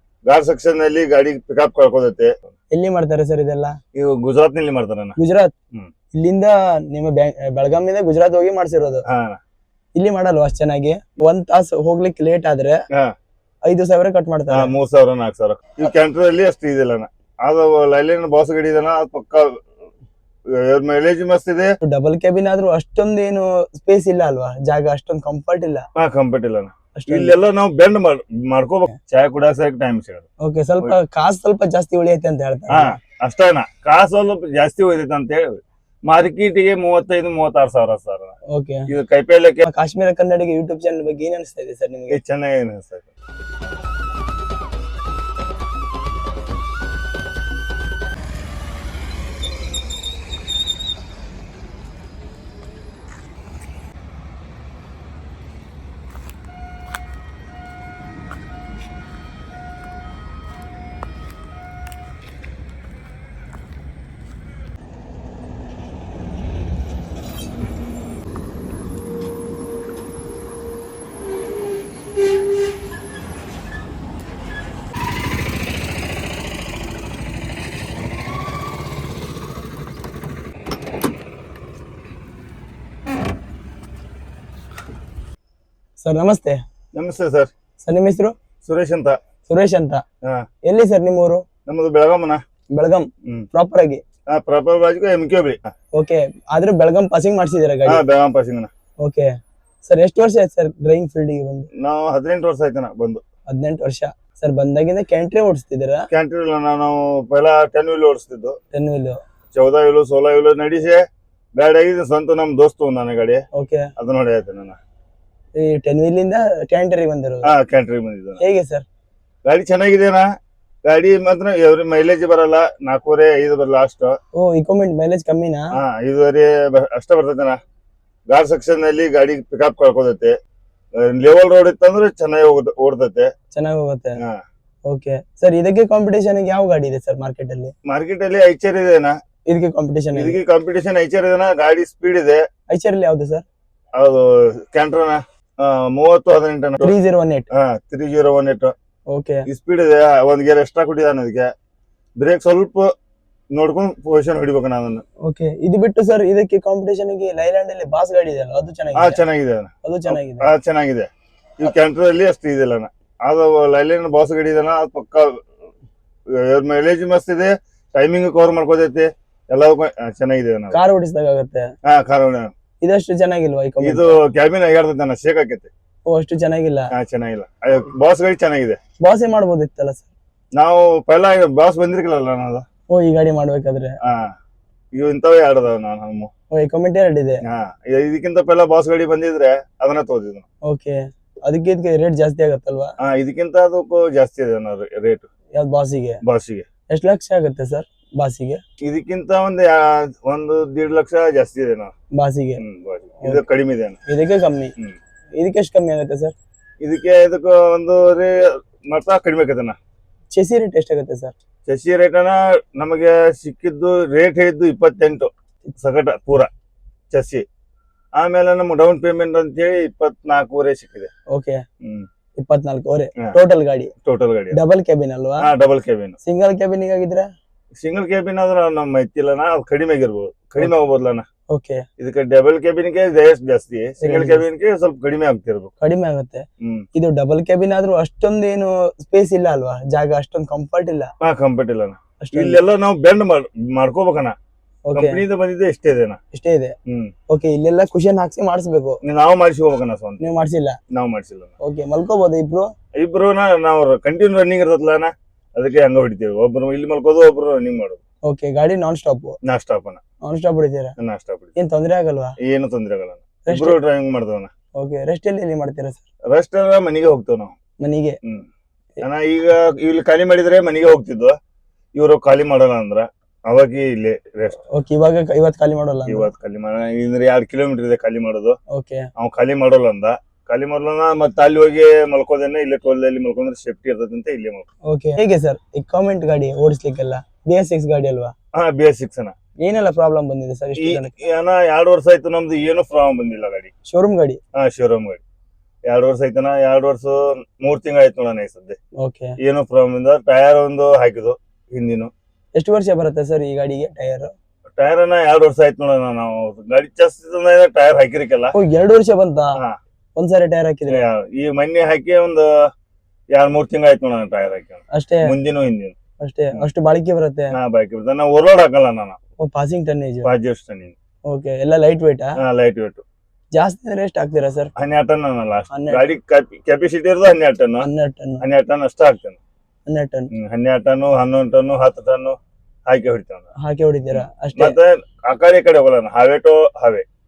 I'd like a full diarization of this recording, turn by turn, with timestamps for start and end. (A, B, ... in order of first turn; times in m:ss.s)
0:00.2-0:02.5 A
0:02.7-0:03.8 B
0:03.9-0:05.2 A
0:05.2-0:05.5 B
0:06.1-0:09.0 B
0:09.0-0:09.4 A
0:10.0-0:12.8 B
0:13.7-0:14.7 B
0:14.5-0:19.6 A
0:20.5-0:21.8 A
0:21.8-0:25.9 B
0:26.0-0:30.3 A
0:27.0-0:27.4 B
0:30.4-0:33.0 B
0:32.7-0:38.3 A
0:38.5-0:38.9 B
0:38.9-0:39.6 A
0:39.6-0:42.2 B
0:42.1-0:43.1 A
1:26.0-1:26.6 B
1:26.9-1:27.5 A
1:27.8-1:28.3 B
1:28.6-1:29.2 A
1:29.5-1:30.0 B
1:30.6-1:31.4 B
1:31.7-1:32.4 A
1:32.7-1:34.0 B
1:34.3-1:35.6 A
1:35.9-1:38.0 B
1:37.9-1:38.7 A
1:39.0-1:39.3 B
1:39.8-1:41.7 B
1:41.8-1:43.2 A
1:43.5-1:46.0 B
1:46.1-1:48.6 A
1:48.7-1:49.2 B
1:49.5-1:51.0 A
1:51.6-1:53.4 A
1:53.6-1:53.9 B
1:54.0-1:54.8 A
1:55.6-1:57.5 B
1:57.4-1:58.4 A
1:58.4-1:58.8 B
1:59.4-2:00.2 A
2:00.9-2:04.2 A
2:04.3-2:05.7 B
2:05.7-2:07.6 A
2:08.3-2:10.4 A
2:11.0-2:13.3 A
2:13.5-2:14.2 B
2:14.9-2:17.7 B
2:17.9-2:19.2 A
2:19.5-2:20.4 B
2:20.2-2:22.4 A
2:22.7-2:23.4 B
2:24.0-2:26.9 A
2:26.8-2:27.5 B
2:27.5-2:28.7 A
2:29.1-2:29.4 B
2:29.5-2:31.5 A
2:32.2-2:32.9 A
2:33.5-2:35.0 A
2:35.2-2:39.2 B
2:39.0-2:45.5 A
2:39.8-2:40.5 B
2:46.4-2:50.8 A
2:50.7-2:51.7 B
2:51.8-2:52.5 A
2:52.8-2:54.2 B
2:53.8-2:55.7 A
2:56.1-2:56.9 B
2:56.9-2:58.8 A
2:59.0-3:00.1 B
3:00.6-3:02.6 A
3:02.9-3:04.0 B
3:04.0-3:04.3 A
3:05.0-3:06.3 A
3:06.5-3:07.4 B
3:07.4-3:10.4 A
3:10.7-3:12.9 B
3:13.0-3:15.3 A
3:15.6-3:16.2 B
3:16.2-3:16.7 A
3:16.9-3:18.6 B
3:18.8-3:21.9 A
3:22.2-3:22.6 B
3:22.6-3:24.0 A
3:24.1-3:24.7 B
3:25.4-3:26.3 B
3:26.8-3:29.8 A
3:30.3-3:31.3 B
3:31.7-3:36.5 A
3:37.1-3:37.4 A
3:38.2-3:41.1 A
3:41.3-3:41.6 B
3:41.8-3:42.1 A
3:42.4-3:43.9 B
3:44.0-3:44.6 A
3:44.5-3:45.5 B
3:45.4-3:46.2 A
3:46.2-3:47.3 B
3:47.8-3:51.3 A
3:51.5-3:51.8 B
3:52.0-3:55.7 A
3:54.0-3:54.4 B
3:55.8-4:01.1 B
3:56.6-3:56.9 A
4:01.2-4:04.3 A
4:02.2-4:02.6 B
4:04.9-4:05.2 B
4:04.9-4:06.2 A
4:06.3-4:06.8 B
4:06.9-4:07.1 A
4:07.3-4:09.0 B
4:09.0-4:10.2 A
4:10.2-4:10.8 B
4:10.9-4:11.5 A
4:11.6-4:12.7 B
4:13.0-4:18.0 A
4:18.3-4:19.4 B
4:19.4-4:20.0 A
4:20.2-4:20.9 B
4:21.0-4:21.5 A
4:21.6-4:22.4 B
4:22.4-4:24.5 A
4:23.4-4:23.8 B
4:24.8-4:26.0 B
4:26.3-4:27.5 A
4:27.8-4:28.2 B
4:29.0-4:31.4 A
4:31.9-4:34.6 A
4:34.7-4:36.3 B
4:36.1-4:38.6 A
4:38.7-4:39.1 B
4:39.2-4:44.7 A
4:44.9-4:48.3 B
4:48.5-4:49.3 A
4:49.6-4:51.1 B
4:50.8-4:53.7 A
4:53.9-4:54.4 B
4:54.5-4:55.2 A
4:55.9-4:58.8 A
4:59.0-4:59.4 B
4:59.4-5:02.1 A
5:02.6-5:04.3 B
5:04.8-5:08.6 A
5:08.5-5:09.5 B
5:10.2-5:11.1 B
5:10.9-5:12.7 A
5:13.3-5:16.0 A
5:14.9-5:15.3 B
5:16.2-5:17.6 B
5:17.5-5:19.2 A
5:19.4-5:20.3 B
5:20.2-5:20.9 A
5:21.3-5:22.4 B
5:22.4-5:23.0 A
5:23.5-5:24.7 B
5:24.8-5:27.9 A
5:25.7-5:26.0 B
5:27.8-5:28.4 B
5:28.4-5:29.4 A
5:29.9-5:30.3 B
5:30.3-5:33.5 A
5:33.6-5:34.8 B
5:34.2-5:37.0 A